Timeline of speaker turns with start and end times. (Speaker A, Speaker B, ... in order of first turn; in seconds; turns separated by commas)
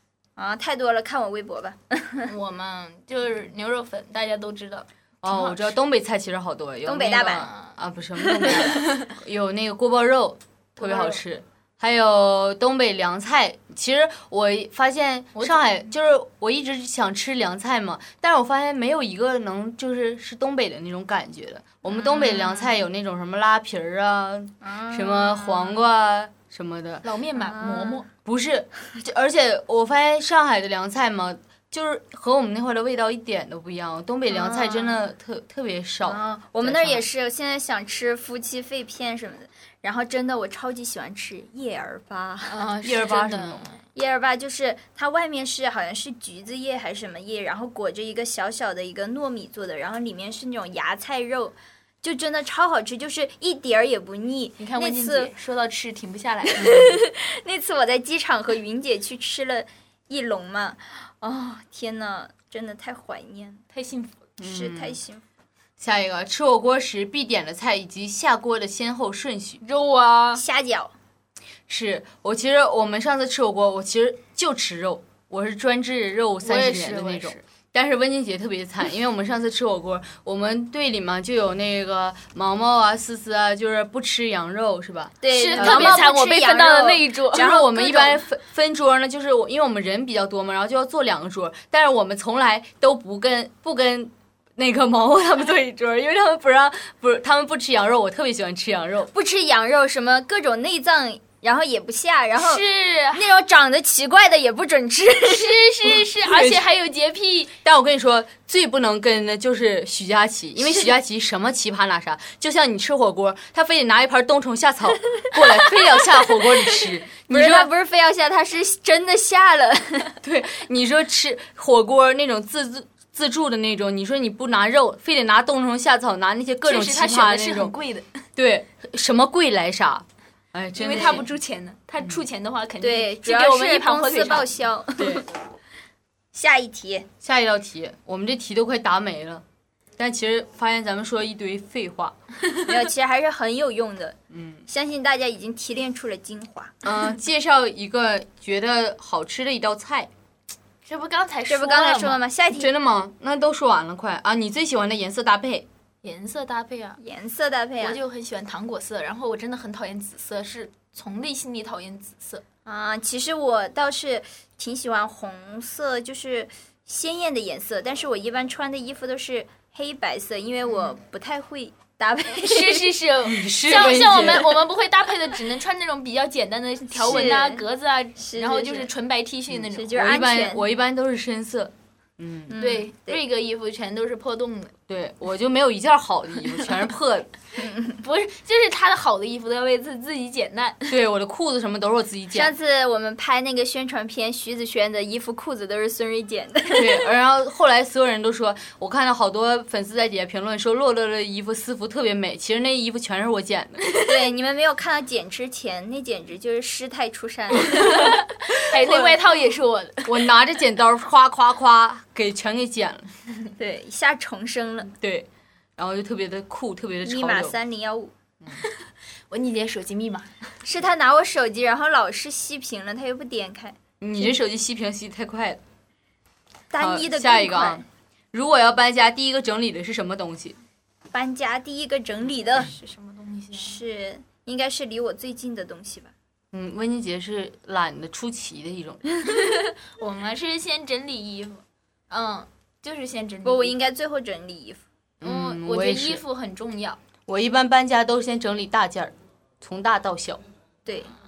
Speaker A: 0.4-2.3, Speaker B: 2.2-5.7, Speaker C: 5.2-27.0, Speaker A: 6.8-7.5, Speaker B: 7.4-9.1, Speaker B: 10.8-11.2, Speaker B: 15.3-15.8, Speaker A: 21.9-22.7, Speaker A: 24.6-25.8, Speaker B: 27.0-28.1, Speaker A: 27.4-28.0, Speaker C: 28.2-37.0, Speaker A: 34.3-35.0, Speaker A: 36.0-42.6, Speaker B: 42.5-43.7, Speaker C: 42.8-43.7, Speaker A: 43.9-55.3, Speaker B: 54.6-56.7, Speaker A: 56.5-63.6, Speaker C: 56.6-56.9, Speaker B: 63.7-64.2, Speaker C: 64.4-65.0, Speaker A: 64.4-65.2, Speaker C: 65.8-69.6, Speaker B: 69.6-70.4, Speaker A: 70.3-70.9, Speaker C: 71.7-86.1, Speaker B: 76.4-77.4, Speaker A: 85.2-88.2, Speaker B: 85.3-88.0, Speaker C: 87.3-99.1, Speaker A: 99.1-105.6, Speaker B: 102.4-103.2, Speaker B: 105.3-107.5, Speaker C: 106.2-106.6, Speaker C: 107.6-117.7, Speaker A: 117.3-120.2, Speaker C: 120.2-127.7, Speaker B: 126.6-128.2, Speaker C: 128.3-131.3, Speaker B: 130.7-134.5, Speaker A: 132.8-135.3, Speaker C: 135.0-135.2, Speaker A: 136.3-137.1, Speaker C: 137.2-139.4, Speaker C: 140.0-142.2, Speaker A: 142.6-144.2, Speaker C: 144.3-144.6, Speaker A: 144.7-146.7, Speaker C: 146.8-150.1, Speaker B: 150.8-152.2, Speaker A: 151.5-152.7, Speaker C: 152.6-155.7, Speaker B: 156.0-157.0, Speaker A: 157.0-158.0, Speaker B: 157.8-162.4, Speaker A: 162.7-172.9, Speaker B: 172.4-180.0, Speaker C: 173.2-174.6, Speaker A: 176.9-177.6, Speaker A: 178.2-178.9, Speaker A: 179.7-180.6, Speaker C: 179.9-182.5, Speaker A: 182.5-183.2, Speaker B: 182.6-184.7, Speaker C: 184.9-187.3, Speaker A: 187.6-188.0, Speaker B: 188.0-191.0, Speaker C: 190.9-192.5, Speaker A: 192.3-197.0, Speaker C: 196.7-203.8, Speaker A: 204.0-208.2, Speaker B: 207.6-210.1, Speaker C: 210.0-213.1, Speaker A: 213.6-214.9, Speaker C: 214.9-217.6, Speaker A: 217.0-218.1, Speaker B: 219.3-220.4, Speaker A: 220.6-224.3, Speaker C: 224.0-225.6, Speaker A: 226.7-227.8, Speaker C: 226.8-230.6, Speaker A: 231.1-232.7, Speaker B: 232.6-233.8, Speaker A: 233.5-236.1, Speaker C: 236.5-239.0, Speaker B: 239.2-243.7, Speaker A: 243.4-244.8, Speaker C: 245.2-246.2, Speaker B: 245.2-247.0, Speaker C: 247.3-250.4, Speaker A: 250.8-251.1